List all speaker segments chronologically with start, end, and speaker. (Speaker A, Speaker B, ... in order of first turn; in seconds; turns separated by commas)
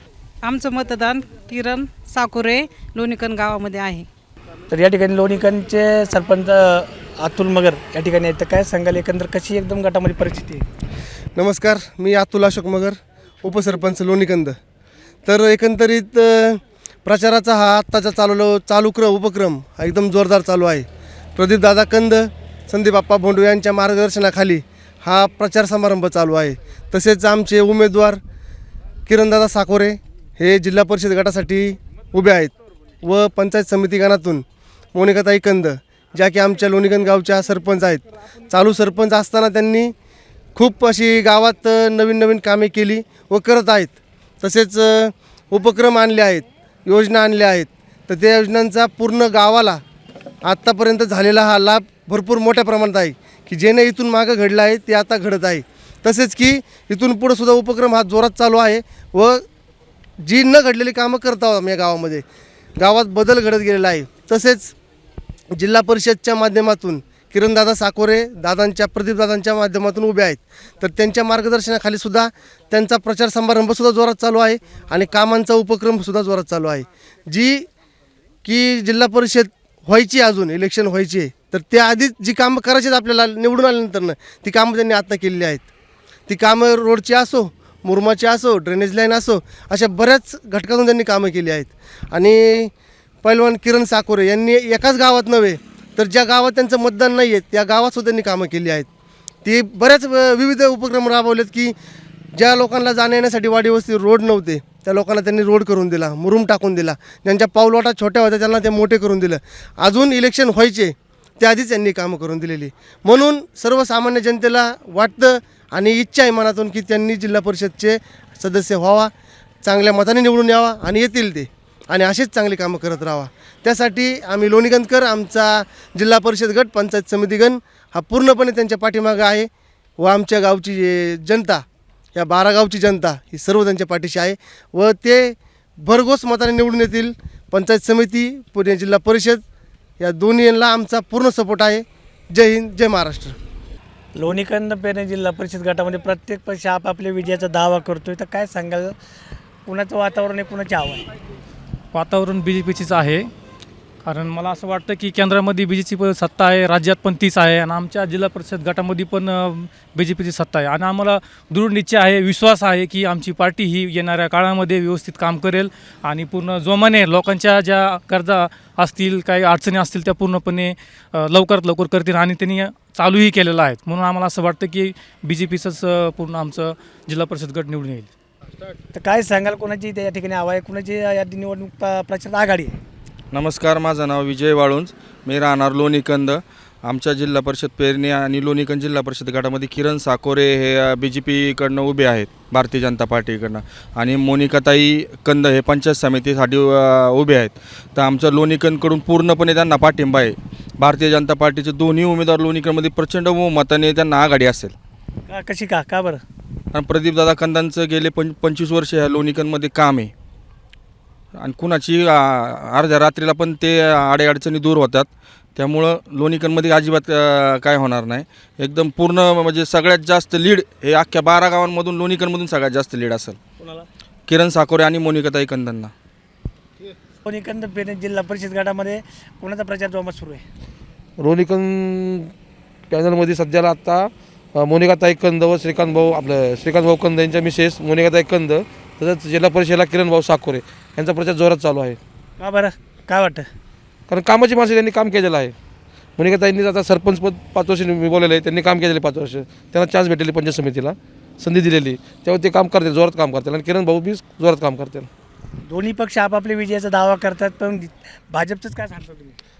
Speaker A: 0.4-4.1, Speaker B: 4.7-10.7, Speaker C: 11.4-14.5, Speaker C: 15.3-20.9, Speaker C: 21.4-28.2, Speaker C: 29.1-39.9, Speaker C: 40.6-49.8, Speaker C: 50.5-59.4, Speaker C: 60.2-62.2, Speaker C: 62.8-64.7, Speaker C: 65.6-77.7, Speaker C: 78.5-85.7, Speaker C: 86.3-92.7, Speaker C: 93.2-98.9, Speaker C: 99.5-101.7, Speaker C: 102.4-119.1, Speaker C: 119.6-129.5, Speaker C: 130.0-131.6, Speaker C: 132.2-139.4, Speaker C: 140.0-143.4, Speaker B: 144.2-149.0, Speaker B: 149.7-151.1, Speaker D: 151.9-153.2, Speaker D: 154.1-178.1, Speaker B: 178.9-182.8, Speaker E: 183.3-204.8, Speaker B: 205.3-206.2, Speaker E: 206.7-210.1, Speaker E: 211.4-223.4, Speaker E: 224.3-225.9, Speaker B: 227.2-230.5, Speaker F: 231.2-232.3, Speaker F: 232.9-242.0, Speaker B: 242.4-243.5, Speaker F: 244.1-245.6, Speaker F: 246.2-255.1, Speaker B: 255.6-259.4